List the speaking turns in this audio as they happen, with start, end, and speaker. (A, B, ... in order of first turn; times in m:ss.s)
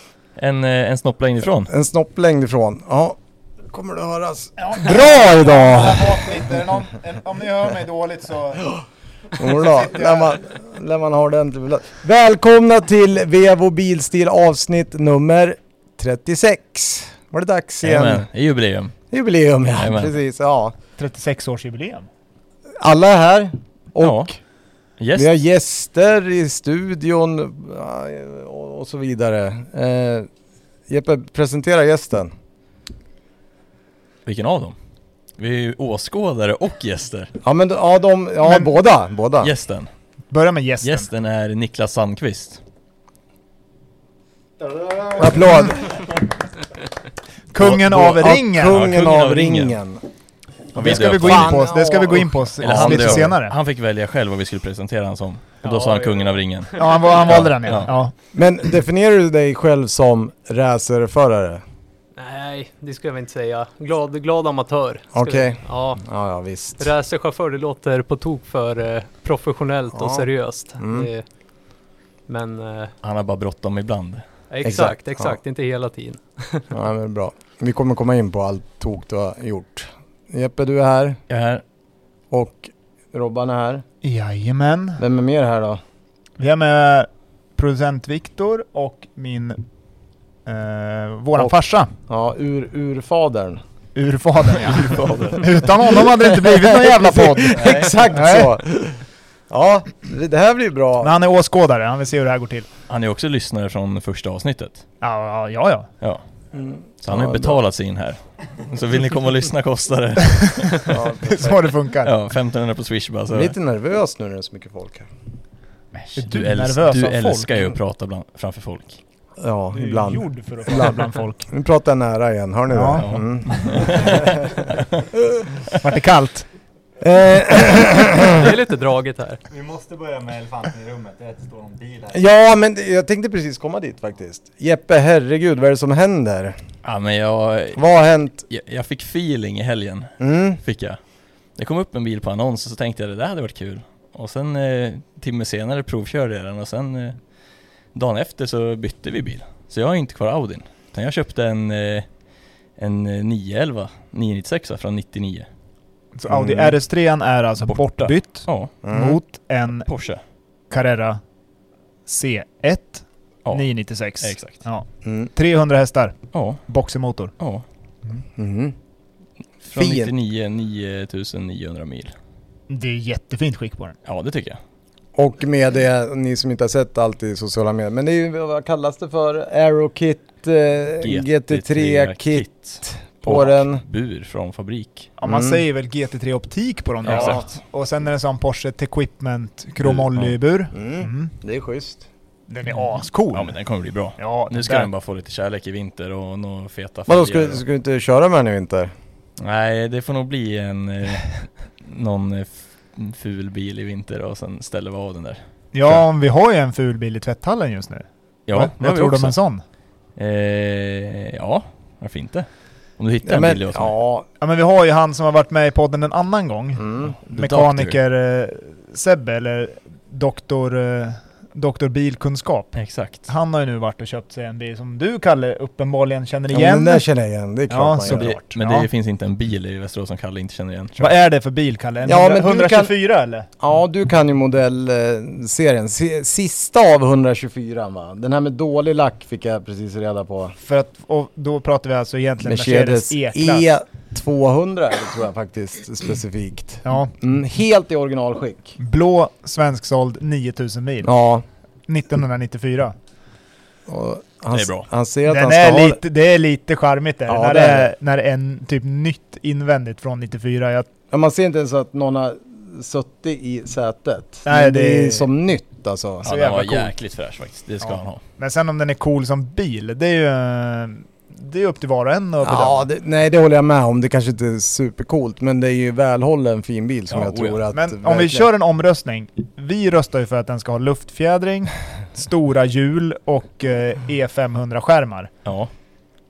0:00.4-0:01.7 A
0:01.7-0:06.5 B
0:04.6-0:08.8 C
0:09.4-0:18.3 B
0:09.6-0:10.4 C
0:17.8-0:19.0 A
0:19.1-0:20.8 B
0:19.8-0:20.1 A
0:21.0-0:22.1 C
0:22.8-0:24.3 B
0:24.0-0:24.3 A
0:25.0-0:25.3 A
0:25.2-0:30.3 B
0:30.9-0:32.3 B
0:34.3-0:34.8 A
0:35.4-0:37.3 A
0:37.4-0:39.5 B
0:39.4-0:39.9 A
0:40.3-0:41.1 C
0:40.8-0:42.6 A
0:44.6-0:45.2 D
0:45.2-0:45.8 B
0:47.5-0:48.8 C
0:47.6-0:50.0 B
0:48.6-0:49.8 A
0:50.8-0:51.6 A
0:50.8-0:53.4 B
0:50.8-0:53.6 C
0:52.6-0:58.0 A
0:55.6-0:57.0 E
0:56.8-0:58.1 C
0:58.3-1:01.6 B
1:02.2-1:06.0 E
1:05.1-1:06.9 B
1:06.8-1:11.2 E
1:09.9-1:10.3 B
1:10.8-1:11.1 B
1:12.3-1:12.9 E
1:13.0-1:14.2 A
1:14.5-1:16.7 E
1:14.6-1:15.4 B
1:16.7-1:21.2 B
1:21.3-1:21.6 A
1:22.3-1:23.8 B
1:24.0-1:25.0 C
1:25.0-1:25.8 B
1:26.4-1:29.6 C
1:30.5-1:31.9 C
1:32.1-1:33.6 B
1:34.0-1:38.5 C
1:34.6-1:35.6 A
1:36.0-1:41.2 B
1:37.5-1:37.9 A
1:41.0-1:42.7 C
1:42.9-1:44.9 A
1:45.0-1:45.9 C
1:46.5-1:47.6 B
1:47.0-1:50.9 A
1:50.6-1:52.1 C
1:50.9-1:51.7 B
1:52.0-1:53.5 A
1:53.3-1:55.1 B
1:55.9-1:59.0 A
1:56.2-1:57.5 C
1:59.4-2:04.7 B
1:59.7-2:01.4 C
2:02.7-2:04.2 C
2:03.0-2:04.8 A
2:05.8-2:06.5 C
2:07.0-2:08.4 B
2:08.3-2:09.4 E
2:09.5-2:12.2 D
2:12.1-2:16.6 B
2:16.8-2:17.8 A
2:17.8-2:18.4 B
2:18.5-2:21.0 A
2:20.2-2:20.6 B
2:21.6-2:27.2 A
2:27.9-2:32.1 A
2:32.8-2:35.5 A
2:36.2-2:39.9 C
2:36.3-2:36.8 B
2:37.6-2:38.7 A
2:38.8-2:39.2 B
2:39.7-2:40.2 A
2:40.7-2:41.2 C
2:42.1-2:46.2 C
2:44.2-2:44.6 A
2:45.0-2:45.3 B
2:46.3-2:46.6 A
2:46.7-2:47.3 C
2:47.4-2:47.6 A
2:48.4-2:48.8 B
2:49.6-2:52.1 A
2:49.7-2:50.1 B
2:52.7-2:54.0 C
2:54.0-2:54.6 A
2:55.2-3:03.8 B
3:01.0-3:05.1 A
3:05.2-3:11.3 C
3:05.2-3:05.6 B
3:07.0-3:07.5 A
3:07.1-3:07.4 B
3:09.8-3:10.4 A
3:10.7-3:12.0 B
3:12.5-3:13.6 C
3:12.7-3:17.6 A
3:14.2-3:14.9 C
3:17.1-3:18.9 B
3:19.4-3:26.0 A
3:25.7-3:29.6 C
3:28.5-3:29.4 A
3:30.2-3:32.5 A
3:33.0-3:33.9 A
3:33.2-3:34.3 B
3:34.4-3:47.0 C
3:36.8-3:37.2 B
3:37.3-3:38.0 A
3:42.8-3:43.3 A
3:46.5-3:48.3 B
3:47.7-3:48.9 C
3:48.0-3:51.1 A
3:51.0-3:53.5 C
3:52.0-3:52.9 B
3:53.6-4:00.6 B
4:00.6-4:03.6 C
4:02.4-4:08.8 B
4:06.8-4:07.1 C
4:08.8-4:11.1 C
4:11.0-4:11.4 B
4:11.9-4:13.0 C
4:13.9-4:16.0 B
4:14.5-4:14.9 A
4:15.3-4:20.9 C
4:17.3-4:17.9 B
4:21.1-4:26.3 B
4:24.4-4:25.3 C
4:26.2-4:28.2 A
4:26.2-4:26.9 C
4:27.8-4:32.8 C
4:32.4-4:38.5 B
4:37.1-4:37.6 A
4:37.7-4:45.3 C
4:45.4-4:45.7 A